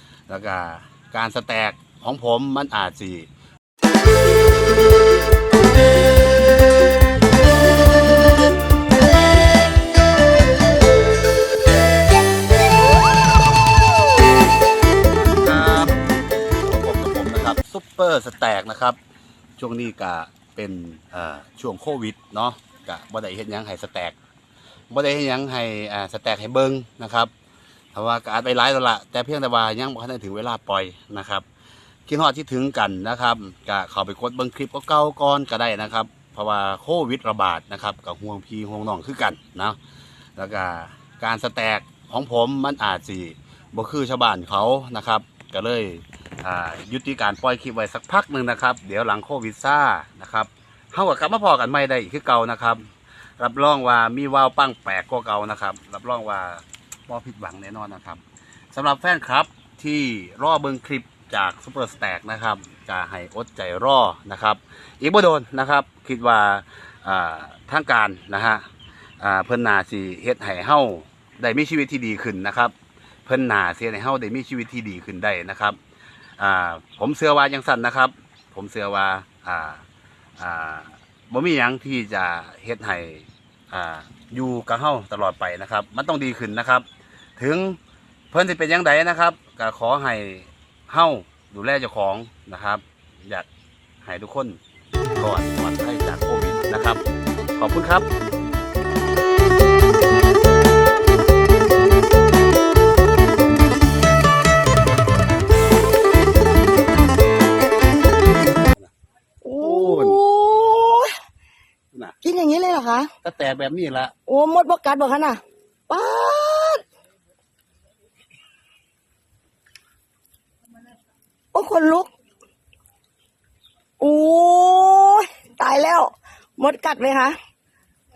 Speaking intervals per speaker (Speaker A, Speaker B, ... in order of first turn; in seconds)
Speaker A: 0.3-3.3, 15.4-16.0, 16.6-19.0, 19.6-24.2, 24.9-27.3, 27.9-31.5, 32.1-39.8, 40.4-68.7, 69.2-72.7, 73.3-75.8, 76.4-79.8, 80.4-86.8, 87.4-87.8, 88.3-93.5, 94.0-94.6, 95.2-97.0, 97.6-98.1, 109.6-110.2, 113.2-114.1
Speaker B: 109.4-111.1, 112.2-113.1, 114.3-116.8, 121.5-122.1, 124.0-127.3